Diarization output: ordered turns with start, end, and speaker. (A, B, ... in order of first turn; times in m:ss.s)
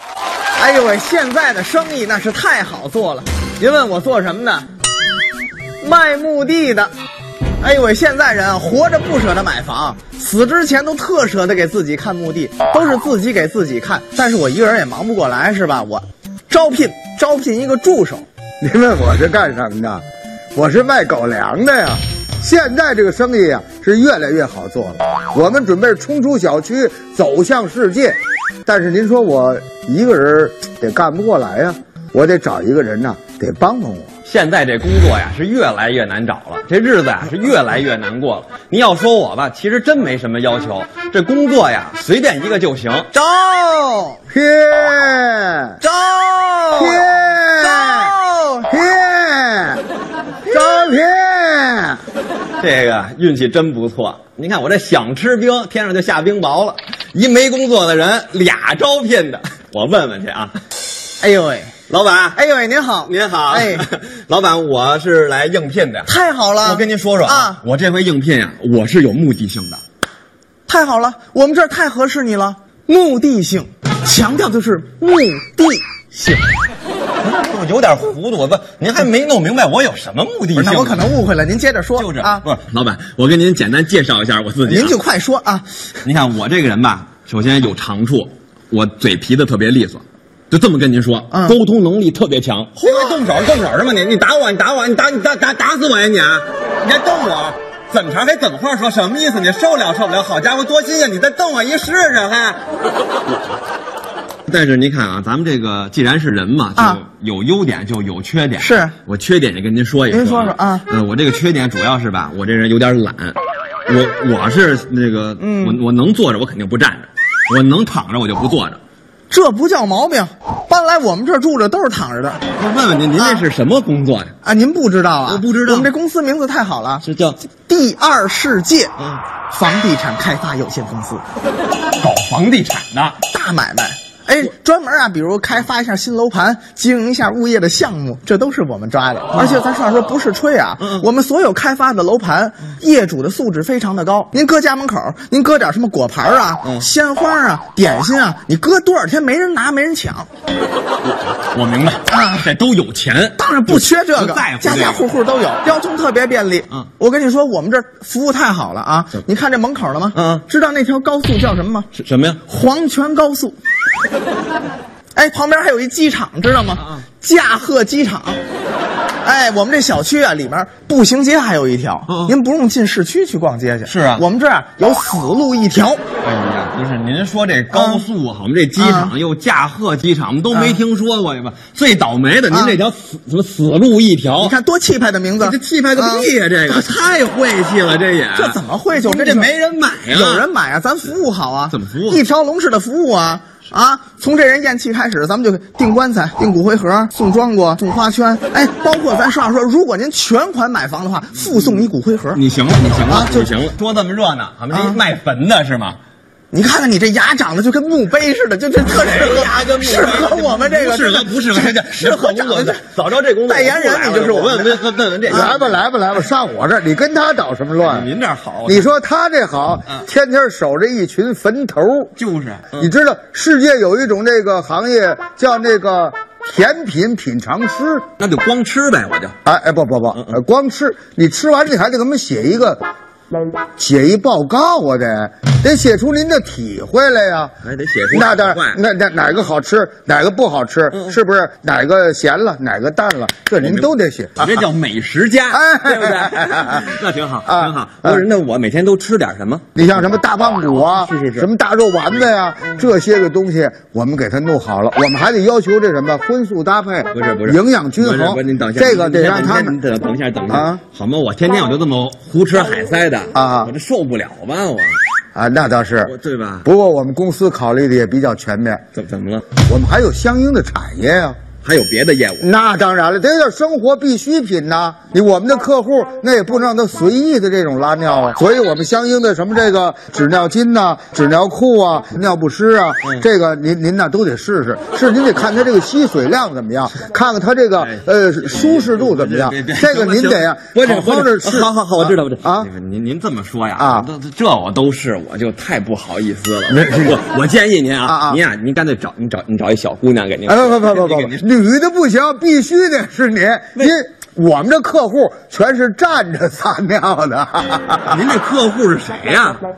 0:00.6-0:04.7 A
0:05.8-0:06.9 A
0:07.6-0:18.2 A
0:18.6-0:34.1 B
0:34.2-0:43.1 C
0:43.1-0:44.2 A
0:44.3-0:45.8 B
0:45.8-0:47.0 A
0:46.8-0:48.1 B
0:47.6-0:48.7 A
0:48.7-0:49.8 B
0:50.4-0:52.0 B
0:52.6-1:00.6 C
1:01.2-1:01.7 A
1:01.9-1:02.4 C
1:02.3-1:03.8 A
1:03.0-1:09.8 C
1:06.1-1:07.6 A
1:10.7-1:16.4 A
1:17.2-1:21.1 C
1:20.5-1:22.4 A
1:22.0-1:25.0 C
1:24.6-1:25.6 A
1:26.0-1:42.6 C
1:44.5-1:58.8 C
1:48.6-1:48.9 A
1:50.1-1:50.8 A
1:55.4-1:55.7 A
1:59.3-2:02.4 A
2:02.6-2:04.3 C
2:03.2-2:03.4 A
2:04.4-2:07.0 A
2:05.2-2:05.9 C
2:07.0-2:07.4 C
2:07.7-2:08.9 A
2:09.5-2:11.2 A
2:12.0-2:13.2 C
2:13.3-2:30.3 A
2:19.3-2:19.6 C
2:20.8-2:21.1 C
2:26.6-2:26.9 C
2:31.1-2:35.2 C
2:33.4-2:41.9 A
2:40.1-2:40.4 C
2:41.9-2:42.4 C
2:42.5-2:43.6 A
2:45.1-2:48.4 A
2:49.2-2:56.0 A
2:52.1-2:52.3 C
2:53.8-2:54.2 C
2:56.2-3:04.6 C
2:57.7-2:58.0 A
2:58.8-2:59.1 A
3:02.5-3:02.8 A
3:04.4-3:06.2 A
3:05.4-3:10.5 C
3:08.4-3:09.5 A
3:10.1-3:22.4 A
3:11.7-3:12.2 C
3:22.3-3:26.0 C
3:23.1-3:23.4 A
3:24.7-3:25.0 A
3:26.5-3:32.8 A
3:28.9-3:35.8 C
3:33.5-3:34.8 A
3:35.3-3:38.1 B
3:37.8-3:38.9 C
3:38.6-3:42.1 B
3:42.2-3:42.9 C
3:42.8-3:48.0 B
3:48.2-3:49.3 C
3:49.4-3:52.8 B
3:53.8-3:57.5 B
3:57.6-3:58.8 C
3:58.1-4:04.6 B
4:03.6-4:09.7 C
4:05.5-4:06.9 B
4:07.4-4:08.2 B
4:09.8-4:19.8 B
4:10.8-4:11.5 C
4:17.1-4:25.0 C
4:20.5-4:20.8 B
4:23.3-4:23.7 B
4:25.3-4:28.8 B
4:26.0-4:26.6 C
4:28.9-4:29.5 C
4:29.6-4:31.4 B
4:31.6-4:32.4 C
4:32.4-4:52.7 B
4:47.8-5:01.4 C
4:53.8-4:54.1 B
4:56.7-4:57.2 B
4:58.0-4:58.4 B
5:00.4-5:08.4 B
5:08.1-5:09.6 C